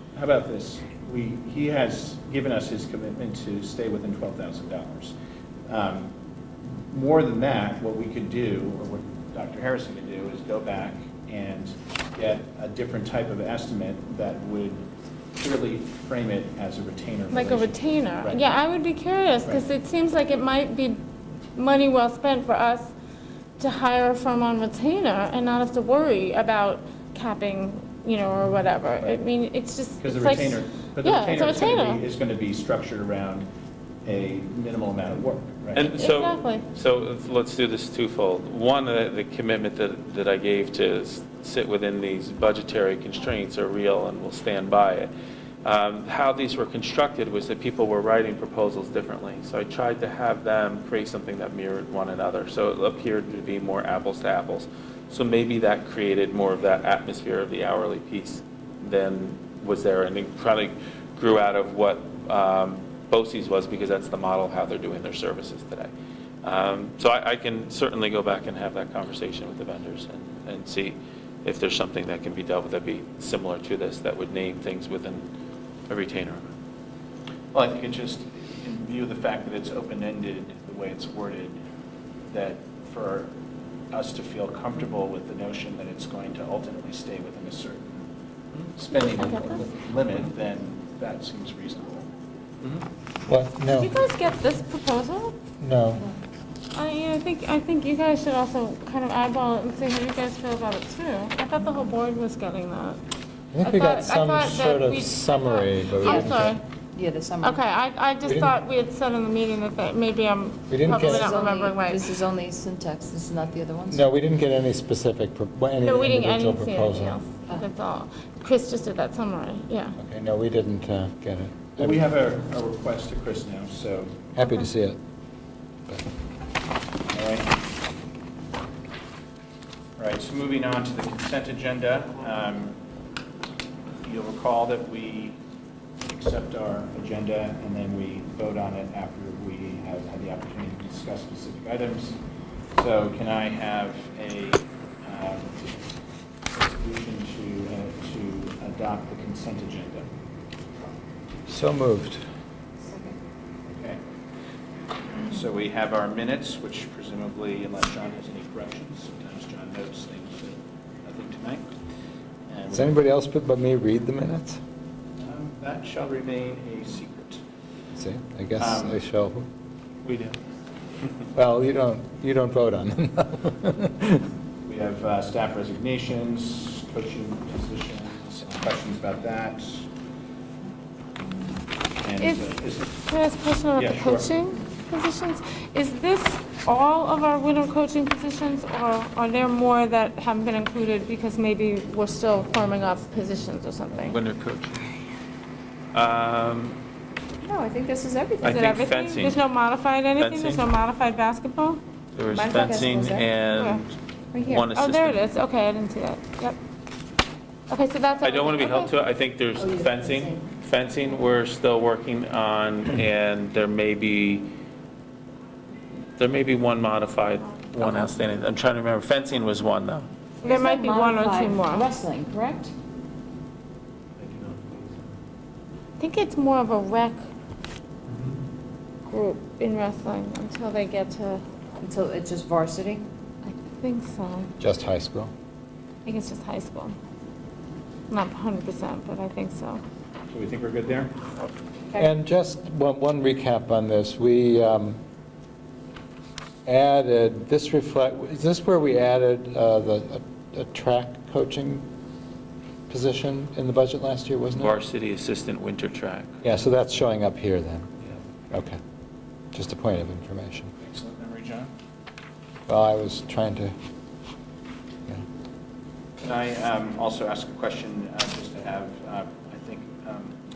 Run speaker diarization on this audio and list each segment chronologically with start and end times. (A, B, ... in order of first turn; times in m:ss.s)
0:00.1-0:05.1 A
0:05.7-0:06.1 A
0:06.9-0:14.8 A
0:15.4-0:18.4 A
0:17.3-0:21.0 B
0:21.5-0:22.9 B
0:23.6-0:32.0 B
0:30.0-0:33.5 A
0:34.0-0:36.0 A
0:35.7-0:45.1 C
0:36.0-0:36.6 B
0:45.6-1:05.9 C
1:06.4-1:15.2 C
1:15.9-1:16.4 C
1:17.5-1:21.6 A
1:22.3-1:23.3 A
1:23.9-1:28.0 A
1:28.7-1:32.1 A
1:29.0-1:29.6 B
1:33.3-1:33.9 D
1:33.7-1:35.4 B
1:35.6-1:36.0 D
1:36.7-1:43.0 B
1:43.5-1:46.6 D
1:43.6-1:46.6 B
1:46.0-1:46.3 E
1:46.9-1:47.6 E
1:47.4-1:52.1 B
1:48.2-1:48.5 D
1:50.7-1:51.3 D
1:50.9-1:54.0 E
1:53.9-1:57.2 D
1:55.8-2:00.0 B
2:00.0-2:02.0 D
2:01.8-2:04.3 A
2:04.4-2:05.0 D
2:07.1-2:07.6 A
2:10.0-2:12.7 A
2:14.0-2:15.4 A
2:16.1-2:22.2 A
2:22.7-2:25.8 A
2:26.5-2:30.1 A
2:31.5-2:32.2 D
2:32.8-2:33.2 E
2:33.7-2:34.0 A
2:35.2-2:41.6 A
2:42.5-2:42.9 A
2:42.7-2:44.6 D
2:45.2-2:47.4 A
2:47.9-2:49.5 D
2:48.6-2:48.9 A
2:51.3-2:54.2 D
2:54.6-2:59.9 A
3:02.0-3:02.9 A
3:02.2-3:14.2 B
3:03.8-3:04.3 A
3:14.0-3:14.9 C
3:15.9-3:16.8 C
3:17.4-3:18.6 E
3:18.4-3:19.4 C
3:18.4-3:21.8 B
3:20.2-3:20.6 C
3:22.1-3:25.2 C
3:22.3-3:23.3 E
3:23.5-3:23.8 B
3:24.3-3:24.7 E
3:24.7-3:26.6 B
3:27.7-3:28.9 B
3:28.2-3:34.5 C
3:29.6-3:30.5 E
3:36.2-3:40.1 C
3:40.4-3:42.7 E
3:40.4-3:41.9 B
3:44.3-3:44.7 C
3:46.0-3:47.2 B
3:49.0-3:51.4 B
3:51.8-3:53.0 E
3:53.4-3:54.5 B
3:54.6-3:55.3 D
3:56.0-3:57.0 B
3:58.1-3:59.8 B
4:00.3-4:01.1 A
4:01.9-4:05.0 D
4:06.6-4:11.8 D
4:12.9-4:14.8 D
4:14.6-4:16.3 C
4:16.4-4:17.9 D
4:18.5-4:18.8 D
4:19.5-4:20.7 D
4:20.8-4:21.7 A
4:22.7-4:23.7 D
4:26.2-4:30.4 A